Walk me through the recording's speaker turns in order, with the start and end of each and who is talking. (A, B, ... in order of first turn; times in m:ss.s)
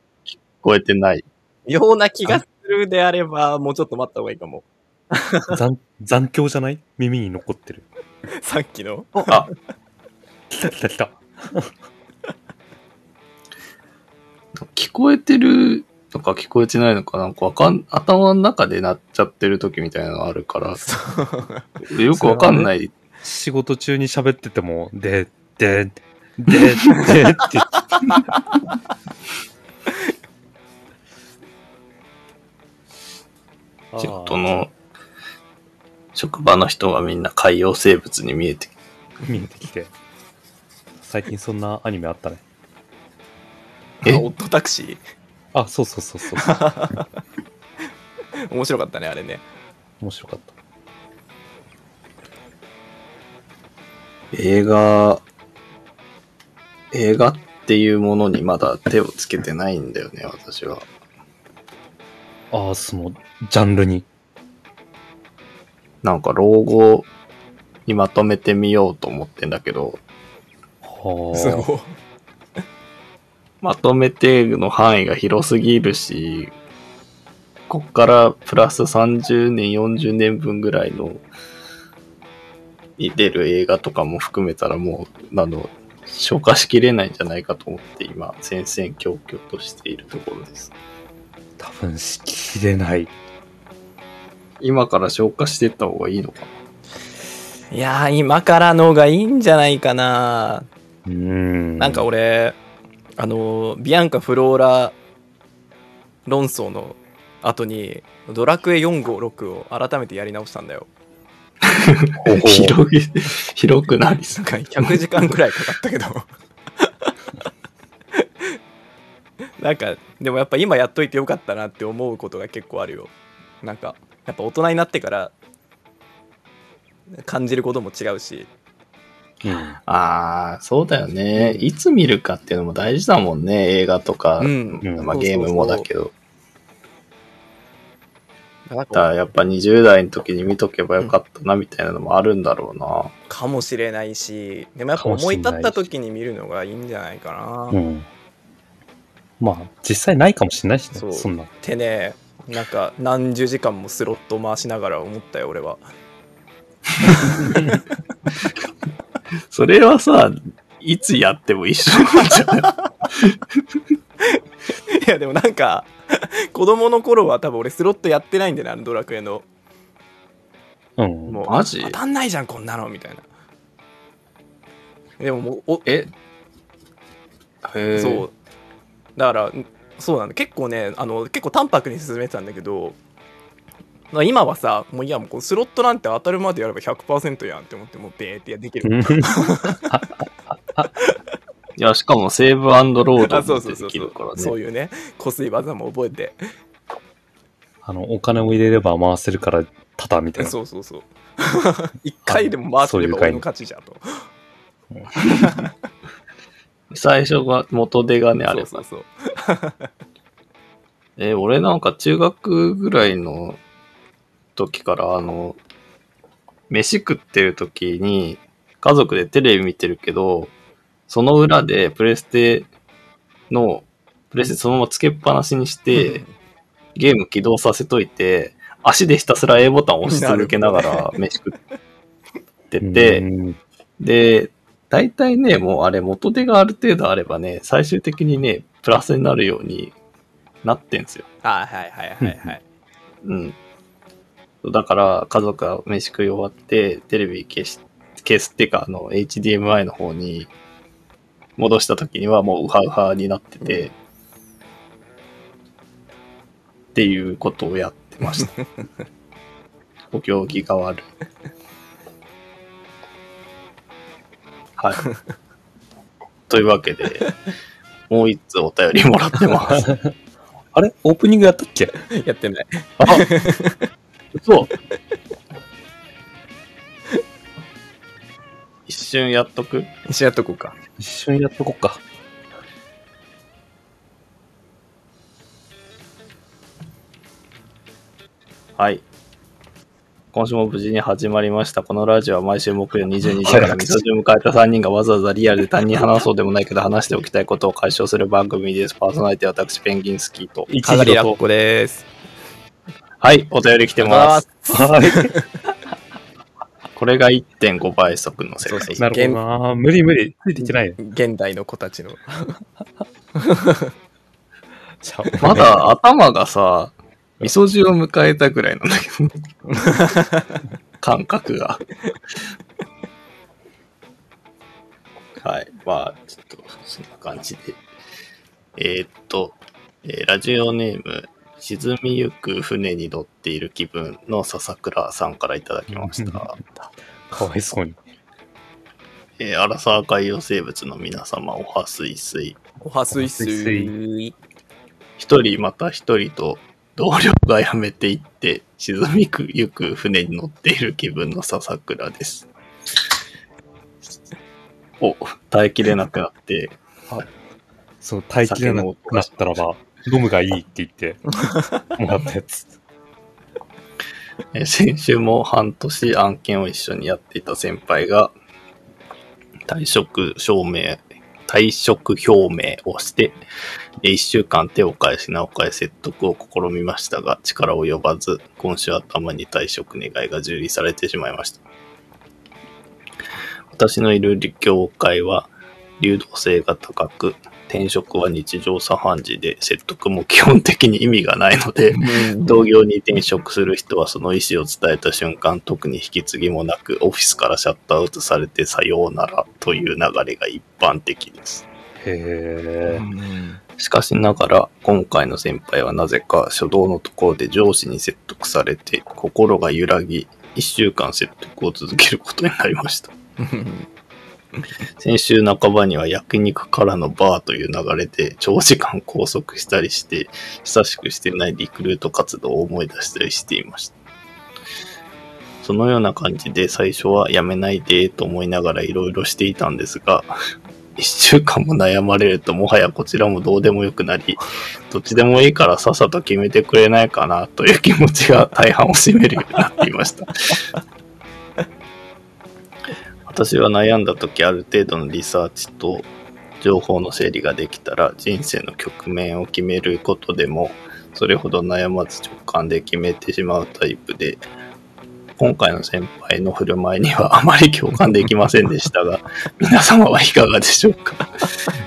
0:00.3-0:01.2 A
0:01.7-0:05.6 B
0:05.5-0:07.9 C
0:08.4-0:09.4 B
0:10.5-0:11.7 C
0:14.6-0:20.8 A
0:20.8-0:21.7 B
0:21.9-0:22.9 A
0:22.1-0:22.7 C
0:23.2-0:27.8 C
0:33.9-0:34.4 C
0:34.0-0:34.7 A
0:36.2-0:38.7 A
0:39.3-0:39.9 C
0:41.0-0:42.4 C
0:44.0-0:45.0 B
0:45.5-0:46.5 C
0:46.4-0:47.1 B
0:48.5-0:49.4 B
0:50.0-0:50.5 C
0:54.3-0:55.2 A
0:56.9-1:00.9 A
1:02.5-1:04.0 C
1:06.0-1:07.1 A
1:07.9-1:10.0 A
1:10.8-1:11.7 C
1:11.3-1:11.9 B
1:13.6-1:16.5 A
1:17.7-1:21.2 A
1:23.0-1:30.7 A
1:31.6-1:33.1 C
1:34.6-1:36.5 A
1:37.7-1:40.7 B
1:41.0-1:42.0 C
1:41.8-1:42.6 B
1:43.2-1:45.0 B
1:46.2-1:50.9 B
1:51.6-1:55.0 A
1:52.2-1:52.8 C
1:54.3-1:56.2 B
1:56.8-1:57.1 B
1:58.1-1:58.5 B
1:59.6-2:03.1 B
2:03.6-2:05.3 B
2:07.2-2:08.5 B
2:09.4-2:09.8 C
2:09.9-2:16.1 A
2:11.4-2:11.7 B
2:14.4-2:15.9 B
2:14.8-2:15.1 C
2:18.7-2:19.1 B
2:18.9-2:23.1 A
2:23.3-2:27.8 B
2:25.0-2:25.9 C
2:27.7-2:28.1 C
2:29.4-2:31.5 C
2:30.9-2:35.8 B
2:37.2-2:37.7 C
2:37.5-2:37.8 B
2:39.5-2:42.7 A
2:44.9-2:49.5 B
2:51.0-2:51.4 C
2:51.3-2:53.2 B
2:51.5-2:52.0 A
2:55.2-2:56.0 B
2:57.6-2:58.2 A
2:58.0-2:58.3 B
2:59.2-3:03.0 B
3:04.1-3:09.9 B
3:08.8-3:10.9 C
3:11.8-3:14.6 A
3:13.2-3:16.4 B
3:17.8-3:20.6 C
3:20.4-3:24.2 B
3:22.3-3:23.4 C
3:25.4-3:25.7 B
3:26.9-3:28.8 A
3:28.5-3:29.9 B
3:31.2-3:33.6 A
3:34.6-3:35.6 A
3:36.7-3:40.5 A
3:41.1-3:42.7 A
3:43.5-3:46.2 A
3:45.9-3:46.3 B
3:47.0-3:51.6 A
3:50.1-3:51.1 B
3:52.7-3:53.2 A
3:52.8-3:53.6 C
3:54.0-4:00.0 A
4:00.6-4:01.2 A
4:01.4-4:02.6 B
4:02.2-4:02.6 C
4:03.2-4:03.6 A
4:04.6-4:10.5 A
4:11.6-4:13.9 A
4:16.9-4:18.6 A
4:20.1-4:21.1 A
4:24.8-4:25.0 A
4:26.5-4:27.3 A
4:28.1-4:29.9 A
4:30.7-4:32.0 C
4:32.1-4:33.9 B
4:33.0-4:33.2 A
4:34.4-4:34.7 A
4:38.9-4:39.9 A
4:40.1-4:40.8 B
4:41.0-4:42.0 C
4:48.8-4:49.0 A
4:50.3-5:00.7 A
4:53.4-4:54.0 C
5:00.7-5:01.4 C
5:00.7-5:02.1 B
5:03.2-5:04.4 A
5:04.0-5:05.5 B
5:04.7-5:05.3 C
5:07.0-5:09.0 A
5:08.6-5:09.4 B
5:09.0-5:11.0 C
5:10.6-5:12.6 B
5:13.4-5:13.9 B
5:15.0-5:15.8 C
5:15.2-5:15.7 B
5:15.4-5:19.4 A
5:19.7-5:20.6 B
5:21.0-5:21.8 A
5:25.4-5:27.8 A
5:28.8-5:36.6 A
5:35.9-5:36.5 C
5:37.3-5:38.0 C
5:39.4-5:42.6 A
5:42.8-5:44.4 B
5:43.1-5:43.9 C
5:45.2-5:52.5 A
5:55.0-5:56.8 A
5:58.0-6:01.2 C
5:58.4-5:59.5 A
6:01.3-6:01.9 B
6:02.0-6:02.8 C
6:04.5-6:08.3 A
6:09.7-6:13.4 A
6:14.0-6:21.6 A
6:23.7-6:41.6 A
6:31.9-6:32.6 B
6:42.0-6:43.0 C
6:42.8-6:43.6 B
6:43.8-6:53.1 A
6:53.4-6:53.9 B
6:55.0-7:03.9 A
7:05.6-7:10.3 A
7:11.0-7:20.6 A
7:23.3-7:26.1 A
7:26.6-7:34.4 A
7:35.4-7:41.2 A